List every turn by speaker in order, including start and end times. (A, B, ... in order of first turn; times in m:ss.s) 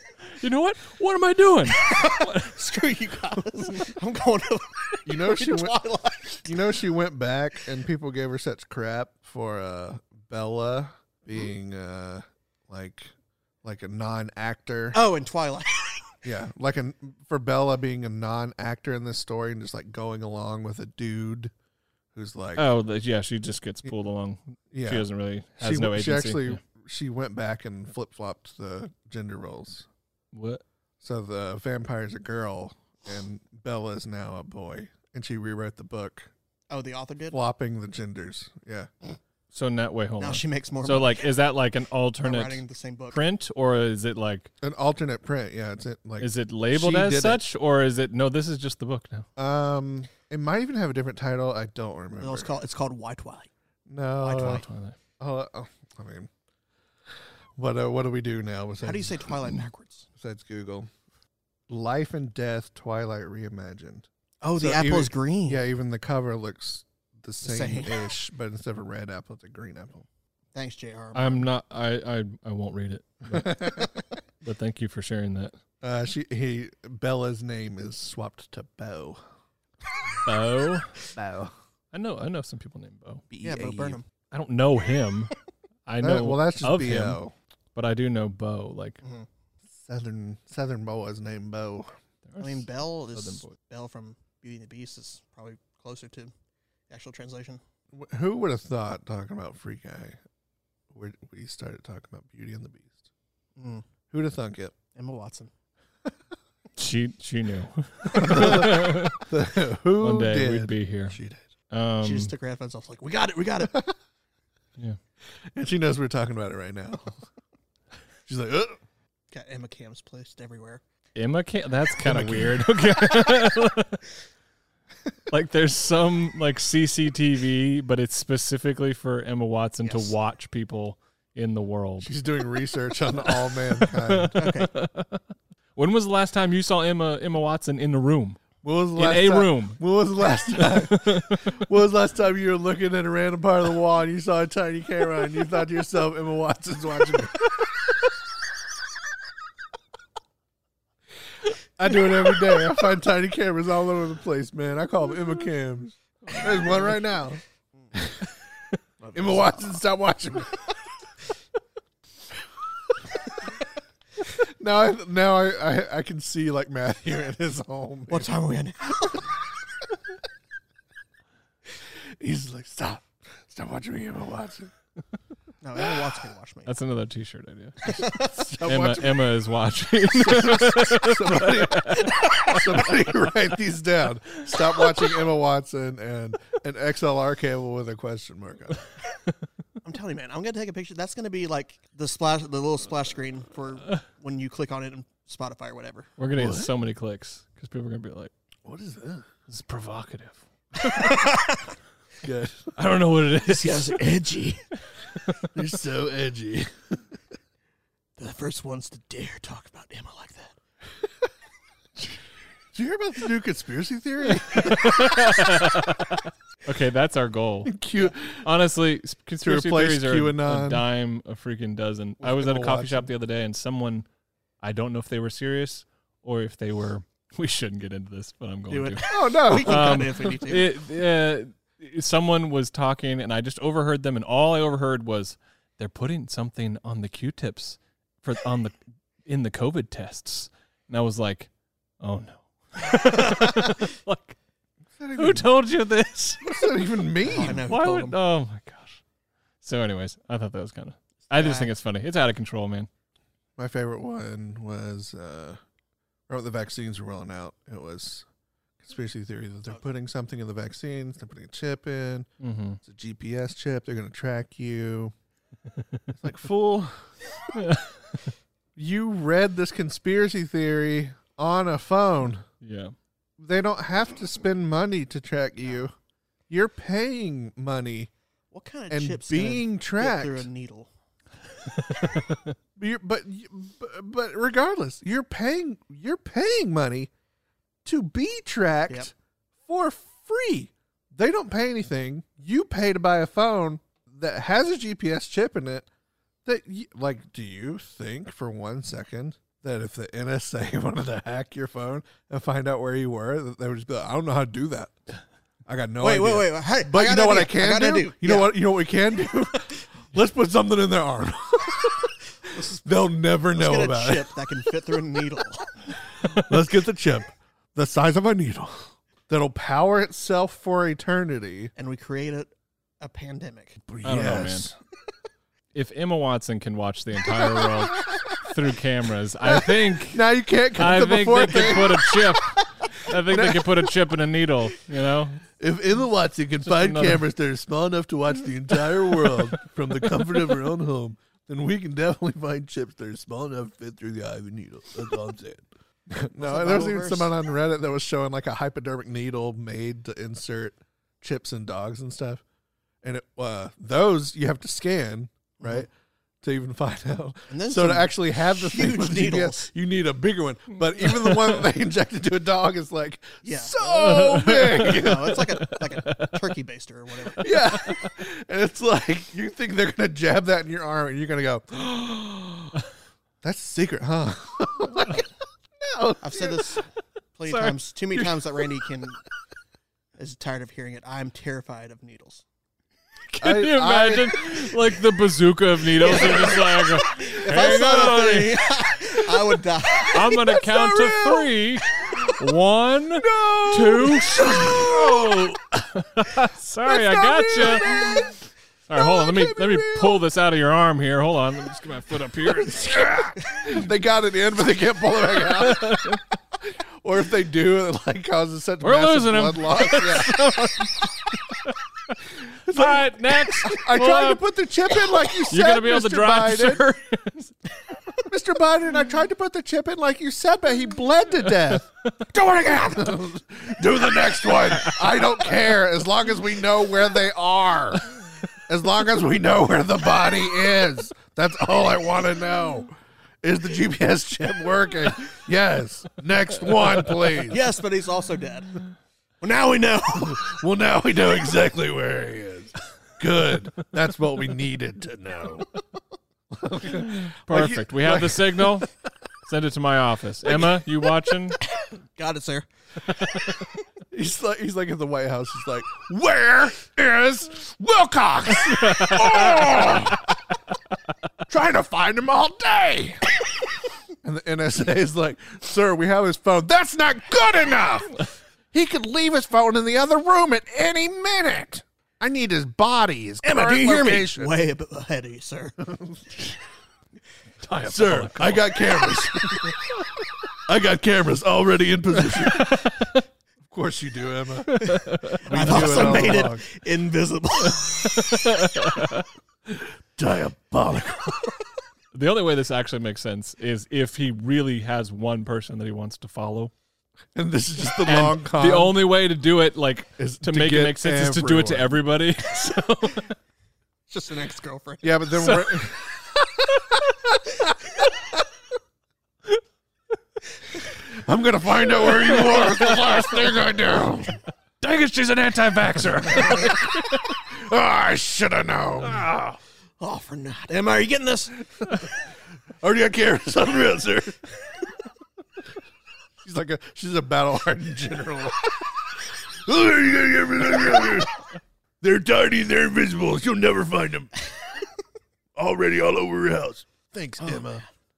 0:00.4-0:02.6 A
0:01.7-0:06.7 B
0:05.1-0:05.8 C
0:06.4-0:13.1 C
0:13.6-0:15.0 C
0:14.9-0:16.1 B
0:16.2-0:21.5 C
0:22.2-0:22.6 C
0:22.6-0:26.6 A
0:24.7-0:25.1 C
0:25.6-0:29.9 C
0:30.3-0:30.6 A
0:31.0-0:36.3 C
0:36.7-0:37.4 B
0:37.3-0:38.9 C
0:39.5-0:44.5 A
0:40.2-0:41.3 B
0:42.2-0:43.2 B
0:44.6-0:47.4 C
0:46.2-0:49.3 A
0:49.4-0:52.5 C
0:52.2-0:53.5 B
0:53.9-0:54.6 C
0:54.2-0:54.6 B
0:54.4-0:55.0 A
0:55.2-0:56.3 C
0:57.6-0:59.6 C
0:58.8-1:00.1 B
1:00.2-1:00.9 C
1:01.7-1:04.1 C
1:04.4-1:05.6 B
1:04.6-1:10.1 C
1:07.4-1:08.0 B
1:10.6-1:11.5 B
1:11.1-1:13.8 A
1:13.3-1:14.0 C
1:14.4-1:15.6 A
1:15.8-1:19.2 C
1:20.2-1:21.0 A
1:21.2-1:21.5 C
1:21.9-1:23.3 A
1:23.3-1:24.0 C
1:23.4-1:24.1 B
1:24.3-1:25.4 A
1:25.9-1:27.2 A
1:26.0-1:27.3 C
1:27.8-1:29.0 A
1:29.0-1:29.3 B
1:29.8-1:31.9 C
1:32.3-1:33.6 A
1:32.4-1:36.3 B
1:36.9-1:37.6 B
1:37.9-1:40.2 C
1:40.9-1:43.0 C
1:43.6-1:43.8 B
1:44.1-1:44.8 C
1:45.0-1:45.5 B
1:46.8-1:49.3 A
1:48.1-1:51.5 C
1:50.0-1:51.2 A
1:51.7-1:52.3 A
1:52.0-1:53.8 B
1:55.5-1:57.2 C
1:58.3-1:58.8 C
1:59.3-2:00.8 B
2:01.2-2:04.0 A
2:02.0-2:02.6 C
2:05.3-2:12.1 A
2:09.8-2:10.1 B
2:12.0-2:14.4 C
2:13.2-2:15.2 A
2:14.4-2:14.7 B
2:15.8-2:18.4 A
2:18.6-2:28.1 C
2:19.0-2:19.8 A
2:20.5-2:21.6 A
2:31.5-2:37.4 C
2:36.4-2:36.8 A
2:37.9-2:38.3 C
2:39.0-2:39.8 B
2:39.1-2:40.6 C
2:44.2-2:48.3 C
2:48.1-2:49.3 B
2:52.2-2:54.7 C
2:55.6-2:56.7 B
2:56.7-2:58.1 A
2:57.8-2:58.5 B
2:58.1-2:59.3 C
2:58.6-3:03.0 A
3:00.0-3:08.8 C
3:09.8-3:16.1 B
3:16.2-3:18.3 A
3:16.4-3:16.7 C
3:18.6-3:19.3 C
3:19.5-3:21.4 A
3:21.0-3:21.6 B
3:22.2-3:22.8 C
3:22.8-3:24.1 A
3:23.4-3:24.6 B
3:25.2-3:25.5 A
3:25.5-3:27.0 C
3:28.2-3:30.6 B
3:32.7-3:35.7 C
3:34.4-3:44.1 A
3:37.7-3:38.5 C
3:39.4-3:40.8 C
3:42.2-3:43.1 C
3:44.6-4:01.5 A
3:48.7-3:50.7 B
3:49.1-3:50.3 C
4:02.0-4:04.4 A
4:03.4-4:03.7 B
4:05.0-4:05.5 C
4:05.2-4:09.0 A
4:06.4-4:07.6 C
4:07.2-4:08.2 B
4:09.6-4:12.9 A
4:11.3-4:11.7 B
4:13.6-4:15.6 C
4:16.3-4:18.3 C
4:18.8-4:22.3 C
4:22.4-4:22.8 A
4:22.8-4:25.1 C
4:26.1-4:27.1 C
4:27.5-4:28.0 A
4:28.8-4:32.4 C
4:32.6-4:32.9 A
4:33.4-4:35.9 C
4:36.5-4:38.1 C
4:38.5-4:40.9 B
4:38.9-4:40.5 C
4:41.9-4:42.5 A
4:42.8-4:47.1 C
4:47.8-4:49.1 C
4:49.7-4:55.9 C
4:56.4-5:04.9 C
5:05.7-5:14.4 C
5:06.0-5:08.6 B
5:13.5-5:15.7 B
5:16.2-5:21.7 C
5:21.8-5:23.8 B
5:23.9-5:24.7 C
5:24.0-5:24.7 A
5:25.7-5:35.4 A
5:29.4-5:32.4 C
5:33.1-5:33.9 C
5:35.6-5:52.4 C
5:36.7-5:37.2 A
5:39.1-5:39.5 A
5:46.4-5:47.3 B
5:53.0-5:55.9 C
5:55.6-5:55.9 B
5:56.4-6:05.5 C
5:57.5-5:59.7 B
6:01.1-6:01.6 A
6:03.4-6:03.9 B
6:04.0-6:06.4 A
6:04.7-6:07.5 B
6:07.4-6:12.8 C
6:07.8-6:08.1 A
6:13.4-6:15.3 C
6:15.8-6:16.8 C
6:16.2-6:19.2 B
6:17.5-6:17.8 A
6:20.2-6:22.4 B
6:23.3-6:28.6 A
6:23.4-6:24.9 C
6:26.0-6:30.4 B
6:26.0-6:26.8 C
6:30.0-6:38.4 A
6:30.1-6:32.4 C
6:33.2-6:35.5 C
6:36.8-6:38.4 C
6:38.9-6:43.7 A
6:38.9-6:40.2 C
6:42.4-6:50.6 C
6:45.4-6:46.2 A
6:48.8-6:52.2 A
6:52.4-6:56.8 C
6:52.7-6:54.4 A
6:55.1-6:57.5 A
6:58.3-7:01.9 C
7:01.7-7:02.8 A
7:02.6-7:08.1 C
7:04.2-7:05.3 A
7:08.7-7:17.6 C
7:16.8-7:17.2 A
7:17.5-7:18.8 B
7:19.4-7:20.6 B
7:20.1-7:25.7 C
7:26.5-7:28.9 C
7:27.0-7:28.9 A
7:29.4-7:31.6 A
7:31.7-7:32.7 B
7:34.1-7:40.3 C
7:38.7-7:40.0 A
7:41.5-7:43.2 C
7:44.2-7:54.5 C
7:53.4-7:55.8 B
7:56.0-7:56.4 C
7:57.6-7:59.9 C
7:57.7-7:58.7 A
8:00.6-8:02.8 C
8:02.4-8:03.2 A
8:03.6-8:06.6 C
8:04.7-8:06.4 A
8:04.8-8:08.1 B
8:08.0-8:09.2 A
8:09.7-8:11.6 C
8:12.1-8:16.7 A
8:17.4-8:19.0 C
8:18.0-8:23.3 A
8:20.2-8:22.0 C
8:24.1-8:25.6 B
8:25.0-8:27.9 C
8:25.4-8:25.9 A
8:30.8-8:34.4 C
8:32.0-8:33.5 A
8:34.8-8:37.3 A
8:36.2-8:39.3 C
8:39.0-8:39.6 A
8:40.0-8:41.9 B
8:42.8-8:44.4 C
8:46.4-8:49.1 C
8:49.6-8:51.4 C
8:52.0-8:54.3 C
8:55.6-8:57.8 C
8:57.4-8:57.8 B